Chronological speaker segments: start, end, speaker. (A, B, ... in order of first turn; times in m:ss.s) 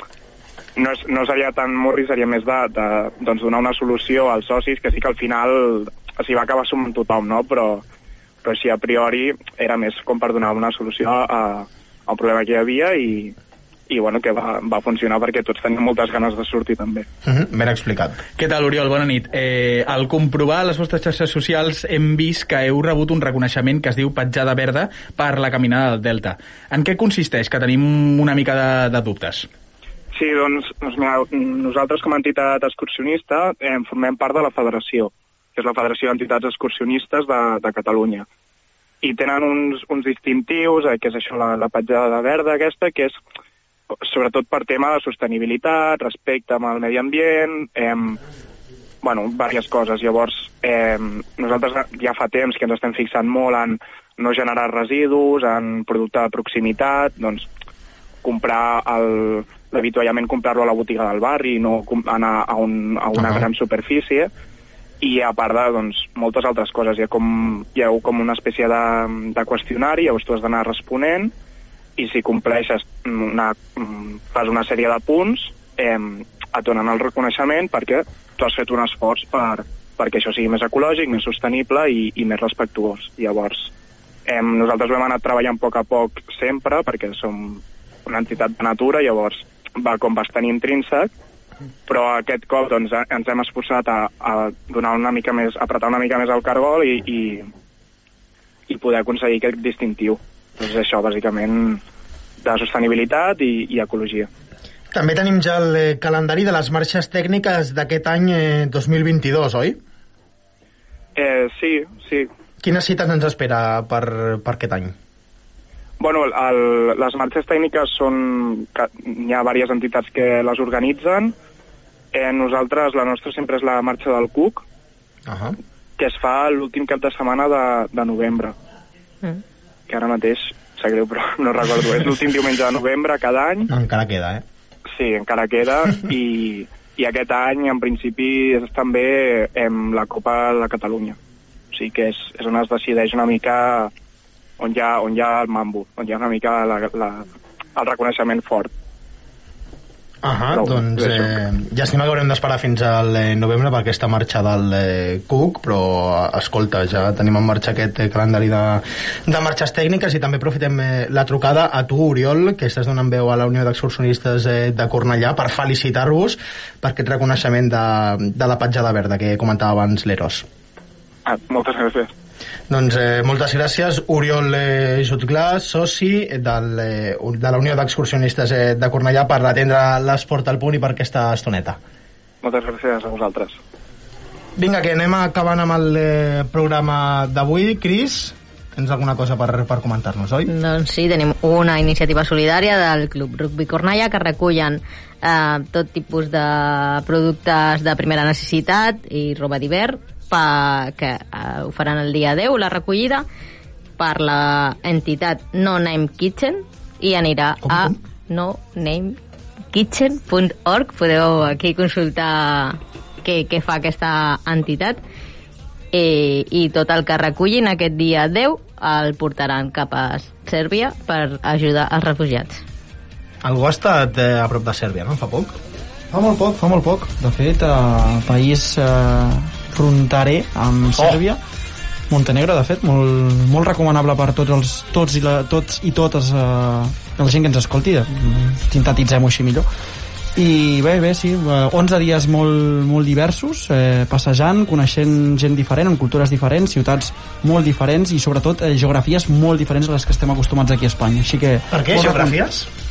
0:00.8-0:07.8 A
0:08.4-0:13.3 A
0:13.9-0:17.0 A
0:17.2-0:18.2 B
0:18.4-0:29.5 C
0:30.1-0:38.3 A
0:39.0-0:43.2 A
0:43.9-0:48.2 A
0:49.0-0:57.5 A
0:58.2-1:04.3 A
1:03.2-1:03.4 B
1:05.0-1:11.3 A
1:12.0-1:23.7 A
1:24.2-1:31.1 A
1:31.9-1:37.4 A
1:38.7-1:41.8 A
1:42.4-1:44.3 A
1:44.9-1:49.8 B
1:51.1-1:52.3 A
1:52.6-1:54.9 B
1:56.0-2:01.3 A
2:02.1-2:04.6 A
2:05.3-2:05.6 B
2:06.0-2:08.5 A
2:09.9-2:13.7 A
2:13.7-2:14.4 B
2:14.9-2:21.2 A
2:21.7-2:23.9 A
2:24.6-2:28.7 A
2:30.2-2:50.4 B
2:30.5-2:31.4 A
2:51.2-2:52.1 A
2:52.7-3:01.8 B
3:02.4-3:03.6 A
3:04.6-3:10.5 B
3:10.5-3:23.2 D
3:24.0-3:29.2 D
3:27.6-3:28.0 B
3:29.7-3:35.0 D
3:35.9-3:42.6 D
3:43.4-3:45.6 B
3:46.1-3:51.4 E
3:52.1-3:59.7 E
4:00.3-4:12.4 E
4:11.7-4:12.7 B